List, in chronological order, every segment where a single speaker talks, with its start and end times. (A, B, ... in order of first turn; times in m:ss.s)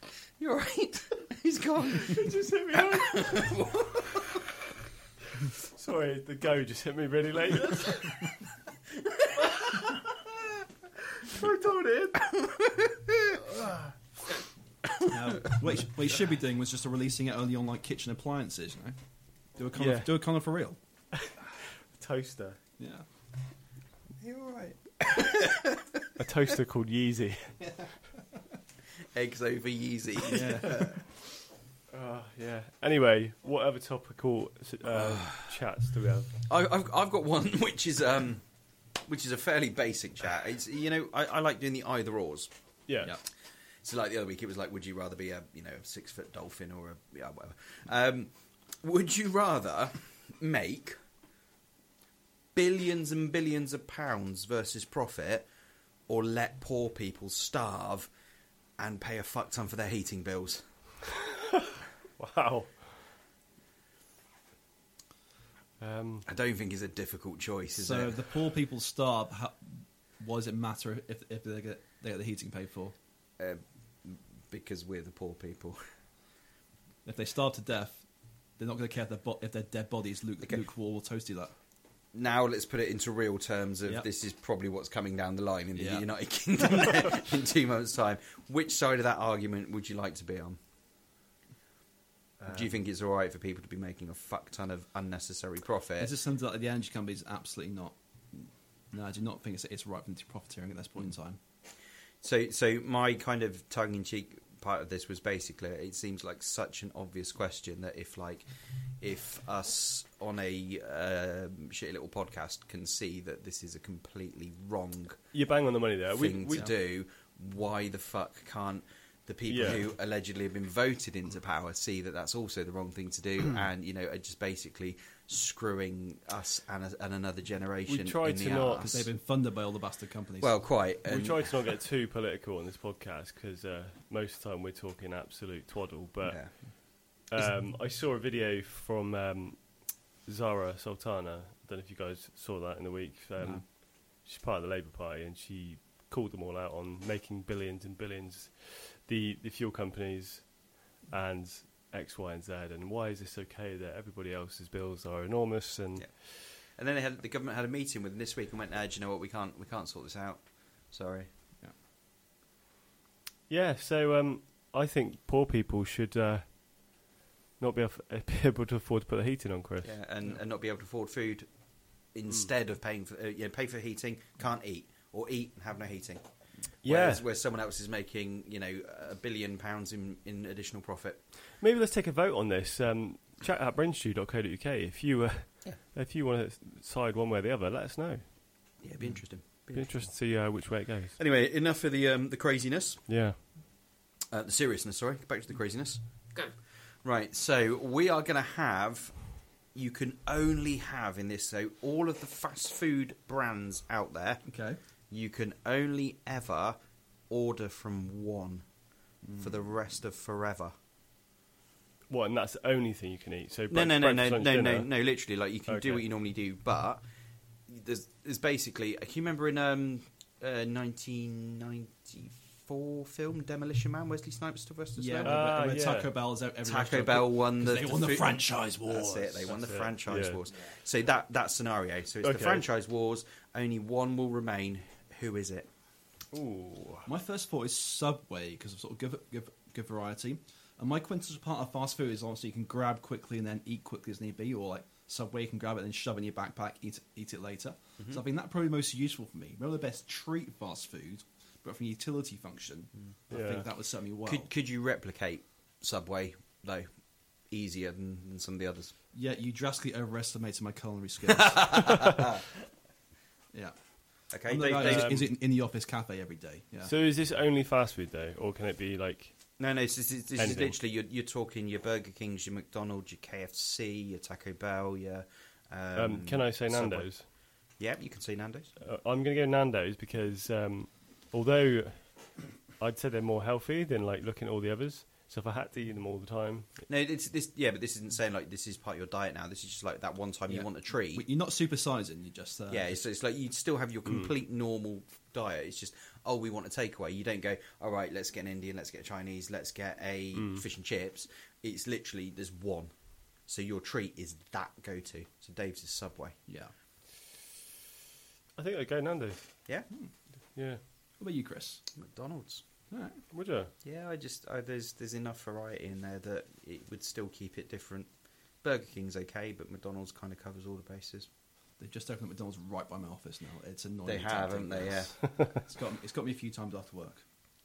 0:00.4-0:04.4 A
0:02.0-0:03.6 B
0:05.6-0:08.2 B
0:09.5-0:10.0 B
0:11.2-0:12.1 B
0:12.2-0:13.4 A
0:13.5-0:13.9 B
0:15.0-0:15.5 A
0:15.1-0:19.0 C
0:19.6-0:20.8 C
0:19.8-0:20.2 B
0:21.9-0:22.6 B
0:22.8-0:23.0 C
0:24.2-0:26.1 A
0:26.2-0:27.6 B
0:29.1-0:30.9 A
0:30.3-0:30.9 C
0:30.4-0:30.9 B
0:31.9-0:36.4 B
0:36.5-0:38.4 A
0:39.0-0:42.5 A
0:42.9-0:43.2 B
0:43.8-0:51.0 A
0:52.6-0:55.5 A
0:56.1-0:58.1 A
0:58.8-1:00.6 A
1:02.2-1:02.8 B
1:05.8-1:06.2 B
1:06.3-1:08.2 A
1:07.7-1:13.0 C
1:13.4-1:15.8 A
1:17.0-1:18.0 C
1:18.6-1:21.5 C
1:22.1-1:30.6 A
1:25.8-1:26.1 C
1:32.5-1:36.1 A
1:36.0-1:41.4 C
1:42.2-1:48.4 A
1:49.0-1:55.2 A
1:55.3-1:56.7 B
1:56.1-2:09.1 A
1:59.5-1:59.8 B
2:07.9-2:08.9 B
2:08.8-2:10.6 C
2:10.4-2:11.5 A
2:11.1-2:36.1 B
2:16.2-2:16.5 A
2:36.0-2:41.3 A
2:43.5-2:46.6 B
2:47.6-2:49.9 B
2:49.8-2:51.5 A
2:52.1-2:56.2 A
2:56.8-2:57.2 B
2:56.8-3:01.2 A
3:01.6-3:08.2 B
3:08.8-3:10.1 A
3:09.6-3:11.2 B
3:11.2-3:13.0 A
3:13.1-3:13.4 B
3:14.3-3:16.5 A
3:17.0-3:24.4 A
3:24.5-3:24.8 C
3:25.1-3:26.8 A
3:27.3-3:28.7 A
3:29.2-3:29.6 C
3:29.4-3:30.7 A
3:32.1-3:34.9 B
3:33.7-3:37.0 A
3:35.7-3:36.0 B
3:37.7-3:45.4 A
3:45.0-3:49.6 C
3:45.2-3:46.1 B
3:46.6-3:55.7 A
3:49.4-3:50.4 B
3:52.2-3:52.6 B
3:56.3-3:57.1 B
3:57.1-4:14.5 C
4:13.3-4:13.6 B
4:14.3-4:16.9 A
4:17.5-4:18.9 A
4:19.1-4:22.2 C
4:21.4-4:22.4 A
4:24.3-4:25.2 A
4:24.5-4:26.9 C
4:24.8-4:25.3 B
4:26.8-4:29.4 B
4:29.6-4:37.2 A
4:30.4-4:30.8 B
4:36.0-4:37.3 B
4:37.8-4:38.7 A
4:38.8-4:42.2 B
4:42.8-4:46.7 B
4:46.9-4:51.3 A
4:50.5-4:53.0 C
4:52.7-5:02.9 A
5:00.4-5:00.6 B
5:03.5-5:06.4 A
5:06.5-5:06.7 C
5:08.6-5:09.6 B
5:10.6-5:10.8 B
5:11.2-5:11.8 C
5:12.0-5:12.6 A
5:12.9-5:13.2 C
5:13.3-5:13.7 B
5:13.8-5:18.1 A
5:18.6-5:21.3 A
5:21.8-5:27.2 C
5:24.0-5:25.1 A